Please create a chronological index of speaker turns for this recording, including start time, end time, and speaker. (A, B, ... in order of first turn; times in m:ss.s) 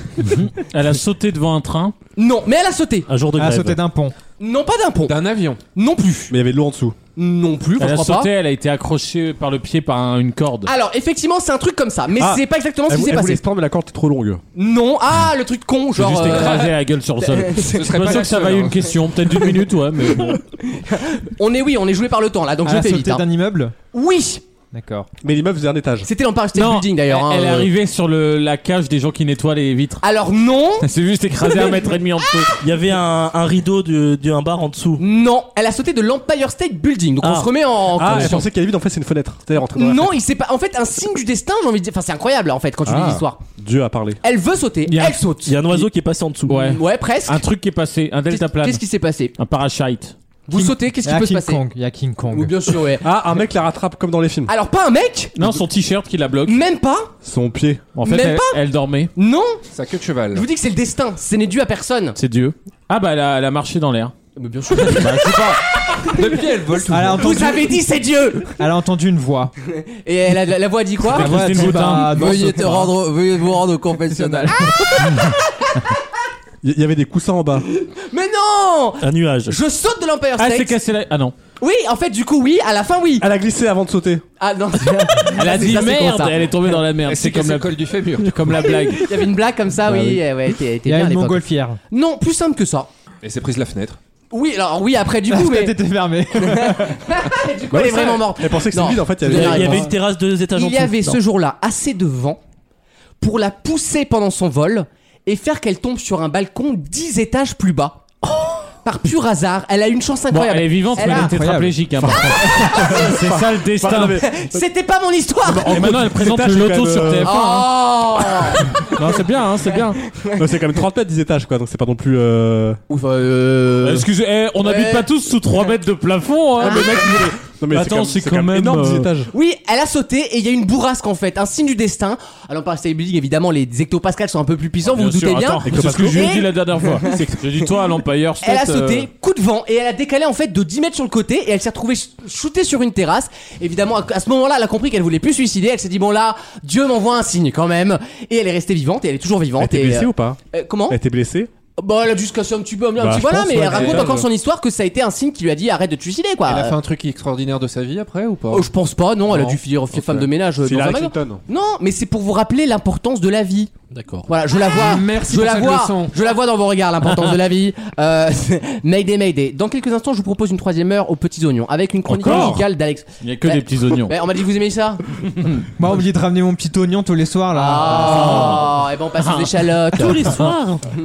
0:00.2-0:02.0 A
0:02.2-0:03.1 B
0:03.1-0:03.8 C
0:03.4-0:04.2 D
0:04.4-0:06.3 B
0:05.1-0:05.6 E
0:06.3-0:07.0 F
0:07.2-0:08.3 B
0:07.8-0:10.7 A
0:10.6-0:13.4 B
0:12.2-0:14.4 F
0:14.6-0:18.3 B
0:16.0-0:20.4 A
0:17.7-0:18.8 E
0:20.6-0:23.2 B
0:22.6-0:23.7 D
0:23.9-0:24.4 B
0:24.7-0:25.1 D
0:25.2-0:26.1 F
0:26.0-0:27.7 B
0:26.5-0:30.0 A
0:30.0-0:30.9 B
0:30.8-0:32.6 A
0:32.6-0:35.0 C
0:35.0-0:38.5 B
0:37.2-0:37.5 C
0:37.9-0:40.2 F
0:39.7-0:43.4 B
0:42.8-0:44.2 F
0:44.2-0:45.8 B
0:44.9-0:45.2 A
0:45.4-0:46.8 C
0:46.5-0:48.8 A
0:46.6-0:47.4 B
0:48.3-0:49.4 B
0:49.4-0:50.2 A
0:50.5-0:51.6 B
0:50.5-0:52.7 D
0:52.3-0:53.1 B
0:53.0-0:54.5 F
0:54.5-0:55.6 B
0:55.4-0:56.6 A
0:56.5-0:57.1 B
0:57.2-0:57.9 F
0:57.9-0:59.1 A
0:58.0-0:58.6 B
0:59.2-0:59.6 B
0:59.7-1:00.4 E
1:00.3-1:02.2 B
1:02.2-1:04.1 A
1:04.4-1:05.4 B
1:04.9-1:05.6 A
1:06.1-1:07.5 E
1:06.8-1:08.5 B
1:06.9-1:07.8 D
1:08.6-1:09.5 D
1:09.7-1:12.1 B
1:11.1-1:12.3 A
1:11.2-1:12.9 D
1:12.1-1:14.7 G
1:14.1-1:14.6 D
1:14.7-1:15.4 B
1:16.6-1:17.6 F
1:17.7-1:20.8 B
1:19.0-1:19.6 C
1:20.4-1:21.4 A
1:21.6-1:23.3 B
1:23.2-1:24.2 F
1:24.4-1:26.4 B
1:25.3-1:29.1 A
1:27.0-1:28.5 E
1:29.0-1:32.9 B
1:30.8-1:31.8 D
1:33.2-1:34.0 E
1:34.3-1:35.8 B
1:35.3-1:37.2 D
1:36.4-1:40.0 B
1:37.7-1:39.9 F
1:39.2-1:41.2 C
1:40.6-1:42.4 B
1:43.2-1:48.1 B
1:48.8-1:51.4 B
1:50.3-1:54.2 A
1:51.0-1:52.0 D
1:52.4-1:53.1 B
1:53.1-1:54.6 F
1:53.9-1:56.0 B
1:55.4-1:57.4 F
1:55.7-1:57.7 A
1:57.2-1:58.9 B
1:58.8-2:00.0 A
2:00.3-2:02.8 F
2:02.9-2:04.1 B
2:03.8-2:09.2 A
2:04.6-2:05.1 B
2:06.6-2:07.2 B
2:07.6-2:09.3 F
2:09.3-2:17.3 B
2:14.8-2:19.1 A
2:15.6-2:16.5 F
2:18.4-2:31.0 B
2:29.6-2:30.4 F
2:30.9-2:31.5 F
2:31.8-2:36.8 B
2:33.0-2:34.3 F
2:33.7-2:34.2 E
2:36.5-2:38.7 E
2:38.5-2:43.7 B
2:39.9-2:41.4 F
2:43.9-2:44.3 C
2:44.3-2:55.0 B
2:44.6-2:46.2 E
2:52.1-2:52.6 A
2:52.2-2:52.6 F
2:53.2-2:54.1 A
2:55.4-2:55.7 A
2:55.8-2:58.6 D
2:57.5-3:00.4 B
2:57.9-3:00.2 A
3:00.0-3:00.8 C